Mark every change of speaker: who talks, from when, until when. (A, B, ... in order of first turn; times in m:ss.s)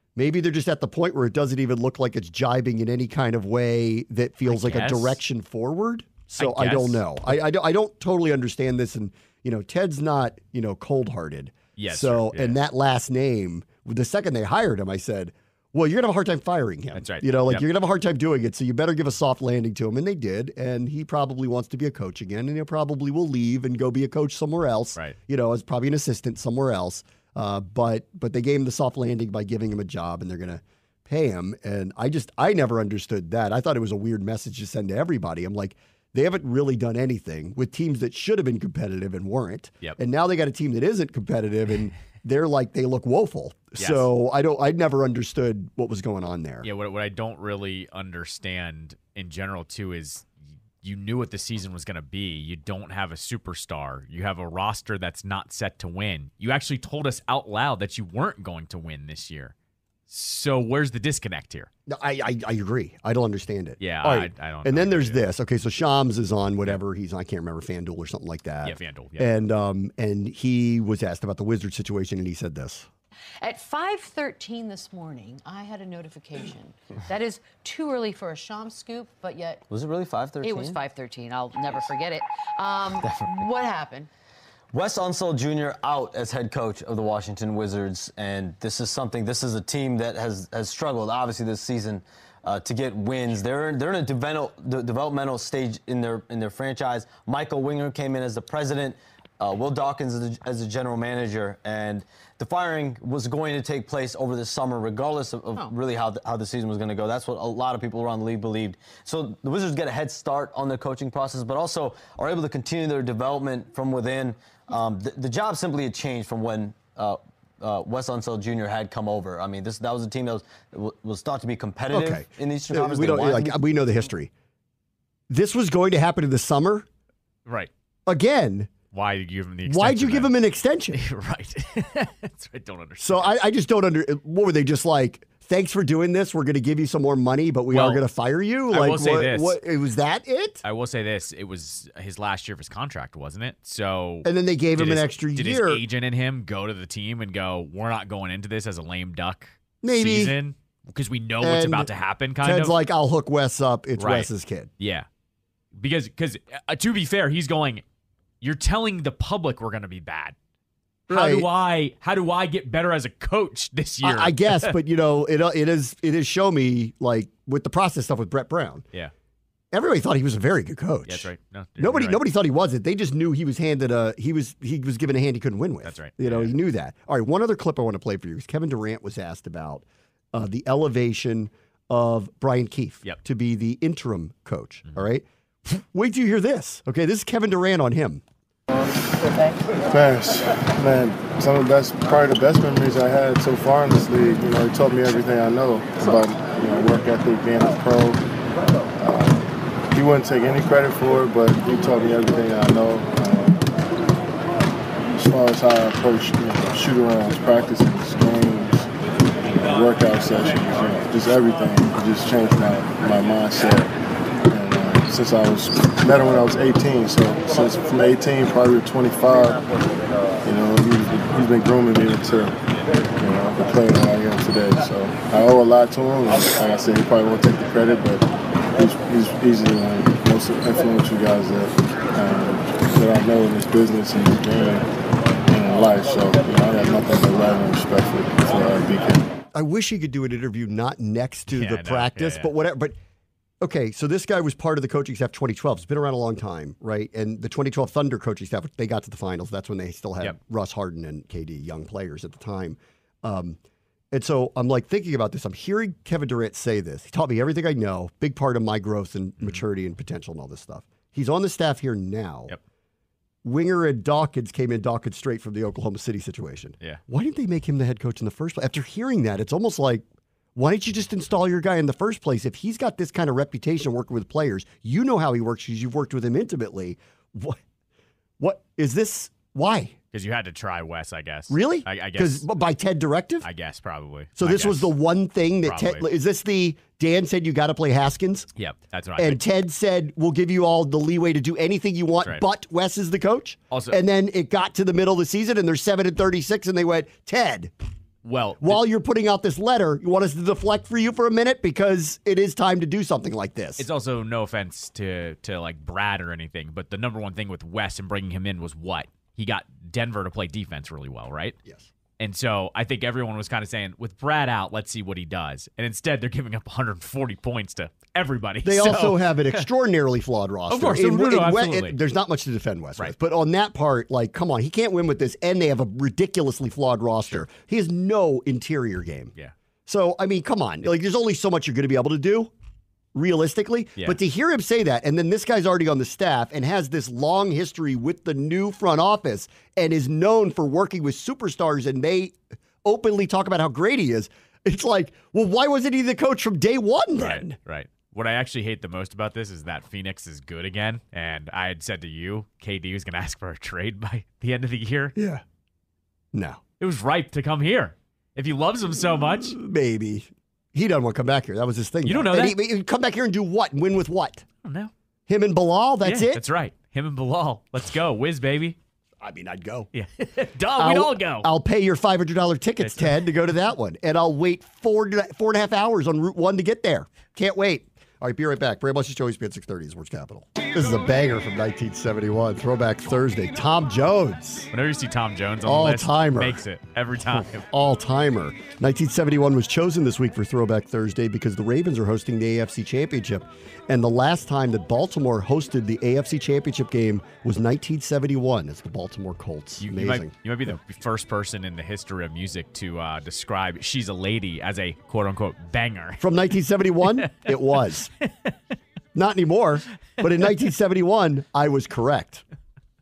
0:00.2-0:46.6 A
0:04.4-0:05.2 B
0:06.4-0:07.0 B
0:11.8-0:12.6 B
0:16.9-0:17.6 B
0:43.8-0:44.0 B
0:46.6-0:50.3 B
0:50.8-0:59.5 B
1:00.1-1:01.7 B
1:01.9-1:12.9 A
1:03.8-1:05.2 B
1:08.6-1:09.3 B
1:13.4-1:19.6 C
1:19.7-1:20.8 D
1:20.4-1:24.1 C
1:24.7-2:03.6 D
2:01.9-2:04.3 A
2:05.3-2:06.9 A
2:07.4-2:07.7 B
2:08.1-2:08.7 A
2:08.9-2:10.3 B
2:09.6-2:11.0 A
2:10.9-2:13.4 B
2:13.0-2:20.6 A
2:17.7-2:18.0 B
2:18.7-2:19.6 B
2:20.6-2:32.8 B
2:24.2-2:25.8 A
2:29.8-2:30.4 A
2:31.4-2:31.9 A
2:32.4-2:34.7 A
2:34.0-2:35.1 B
2:35.7-2:37.8 B
2:38.4-2:40.3 B
2:41.1-2:41.5 A
2:41.1-2:44.8 B
2:44.0-2:48.8 A
2:49.7-3:08.2 A
2:51.0-2:52.2 B
2:55.8-2:56.5 B
3:09.4-3:18.2 E
3:19.0-3:23.7 E
3:25.1-3:28.9 E
3:29.5-3:33.9 E
3:34.4-3:39.7 E
3:40.4-3:42.5 E
3:43.2-3:54.8 E
3:55.4-3:59.3 E
3:59.5-4:03.0 A
4:01.5-4:02.5 B
4:03.6-4:13.6 A
4:14.1-4:22.5 A
4:23.4-4:37.6 A
4:38.4-4:40.0 A
4:40.1-4:42.4 B
4:41.5-4:43.5 A
4:43.4-4:44.9 B
4:44.4-4:48.5 A
4:45.6-4:46.0 B
4:48.6-4:49.4 B
4:49.2-4:57.7 A
4:53.7-4:54.0 B
4:58.2-4:58.8 B
4:58.6-5:03.8 A
5:03.8-5:11.6 B
5:12.2-5:19.6 B
5:18.6-5:29.3 A
5:20.7-5:22.0 B
5:29.8-5:32.5 A
5:33.1-5:47.6 A
5:47.2-5:55.2 B
5:55.1-5:55.4 A
5:56.3-5:56.6 A
5:56.8-5:59.6 B
5:59.5-6:04.4 A
6:02.0-6:02.6 B
6:04.6-6:04.9 B
6:05.3-6:06.4 A
6:06.0-6:08.8 B
6:09.2-6:09.9 A
6:09.9-6:11.5 B
6:10.8-6:24.7 A
6:12.8-6:13.1 B
6:24.7-6:27.6 B
6:25.6-6:26.6 A
6:27.3-6:40.3 A
6:39.8-6:46.2 B
6:46.2-6:48.1 A
6:49.1-6:52.4 A